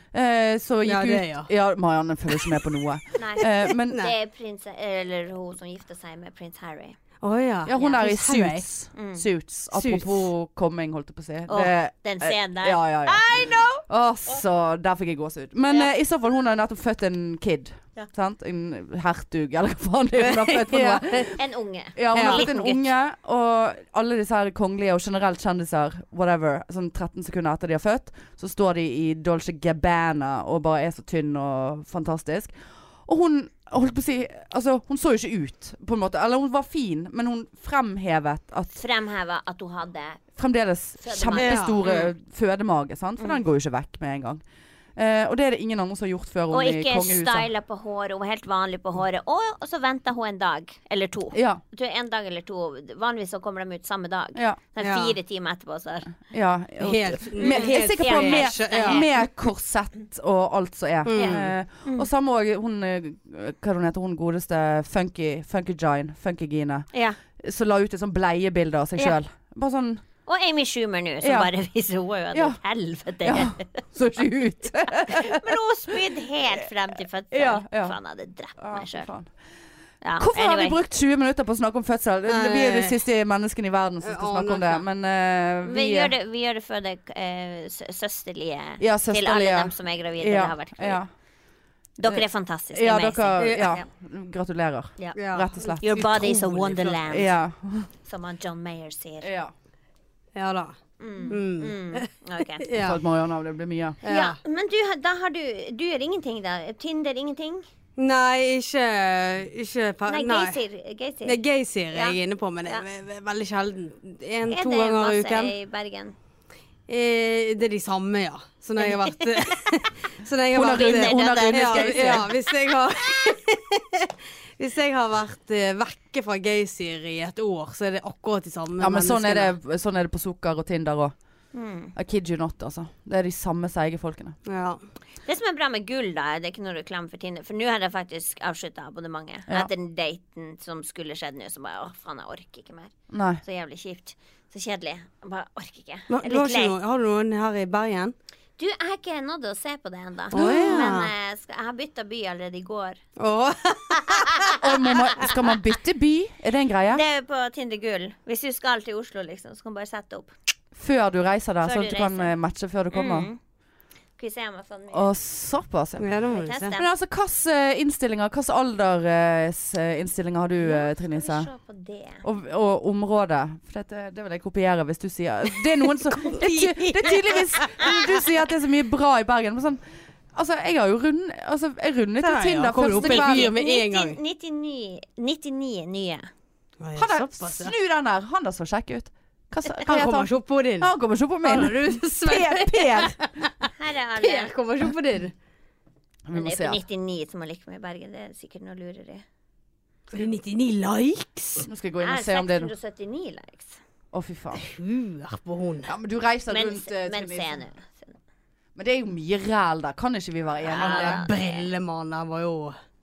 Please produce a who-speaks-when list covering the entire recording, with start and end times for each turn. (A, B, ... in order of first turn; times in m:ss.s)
0:00.1-0:04.0 A
0:00.8-0:01.5 B
0:02.4-0:02.6 B
0:03.2-0:07.0 C
0:03.4-0:04.1 B
0:07.2-0:08.6 B
0:07.7-0:13.3 A
0:07.7-0:08.0 C
0:09.0-0:09.2 C
0:09.7-0:10.3 B
0:11.5-0:14.4 C
0:13.9-0:21.4 A
0:20.2-0:21.3 B
0:21.4-0:22.8 C
0:22.0-0:32.5 A
0:22.1-0:22.5 B
0:33.0-0:38.8 A
0:38.7-0:40.2 C
0:40.4-0:44.4 A
0:41.0-0:42.1 C
0:41.3-0:41.8 B
0:45.0-0:47.5 A
0:46.5-0:56.1 C
0:51.3-0:51.6 A
0:54.4-0:54.6 A
0:54.8-0:55.2 B
0:56.3-1:10.0 A
0:56.8-0:59.1 B
0:57.4-0:59.2 C
1:01.0-1:01.5 B
1:01.2-1:02.1 C
1:06.9-1:07.2 C
1:10.3-1:13.8 C
1:11.2-1:11.5 A
1:12.3-1:12.6 A
1:13.2-1:16.1 A
1:15.1-1:19.1 C
1:17.3-1:18.0 A
1:18.6-1:19.3 A
1:20.0-1:20.8 C
1:20.2-1:26.1 A
1:22.3-1:23.0 B
1:24.0-1:24.8 B
1:25.6-1:31.0 C
1:28.8-1:31.1 A
1:32.0-1:33.9 C
1:32.0-1:36.0 A
1:33.4-1:33.7 B
1:35.2-1:37.0 B
1:35.8-1:37.3 C
1:37.1-1:37.9 A
1:38.0-1:39.3 C
1:39.2-1:39.5 A
1:40.4-1:40.7 B
1:41.0-1:42.7 C
1:41.3-1:42.1 B
1:42.6-1:43.0 B
1:42.7-1:44.0 A
1:44.0-1:44.4 B
1:44.0-1:47.6 C
1:48.0-1:50.6 B
1:50.0-1:51.4 C
1:51.2-1:55.5 B
1:51.9-1:52.9 C
1:54.5-1:56.1 C
1:56.9-2:09.6 B
1:58.8-1:59.7 C
2:00.5-2:02.3 A
2:00.7-2:02.3 C
2:08.8-2:11.1 A
2:11.5-2:11.9 C
2:12.0-2:14.4 A
2:14.4-2:14.8 B
2:15.2-2:26.8 C
2:23.1-2:23.4 A
2:26.1-2:28.1 B
2:28.6-2:33.0 C
2:30.3-2:31.1 B
2:30.3-2:30.9 A
2:33.2-2:34.6 B
2:34.1-2:34.6 C
2:34.6-2:37.0 A
2:36.9-2:40.3 C
2:40.7-2:43.3 A
2:41.6-2:42.3 C
2:42.9-2:43.4 C
2:44.2-2:45.1 C
2:44.9-2:46.1 A
2:46.0-2:46.8 B
2:46.3-2:46.9 C
2:46.7-2:51.5 A
2:50.6-2:52.2 C
2:52.2-2:59.8 A
2:56.0-2:58.1 B
3:00.3-3:03.5 A
3:02.2-3:04.2 B
3:02.9-3:06.3 C
3:06.8-3:07.7 B
3:07.0-3:13.5 A
3:09.8-3:10.9 B
3:11.4-3:15.3 B
3:13.8-3:14.5 C
3:16.3-3:16.8 A
3:16.3-3:19.2 C
3:20.1-3:21.7 B
3:21.6-3:22.7 A
3:22.0-3:23.8 C
3:24.1-3:24.6 A
3:24.6-3:26.0 B
3:25.9-3:27.6 A
3:26.5-3:28.2 C
3:28.8-3:31.2 A
3:30.7-3:31.7 C
3:30.7-3:32.8 B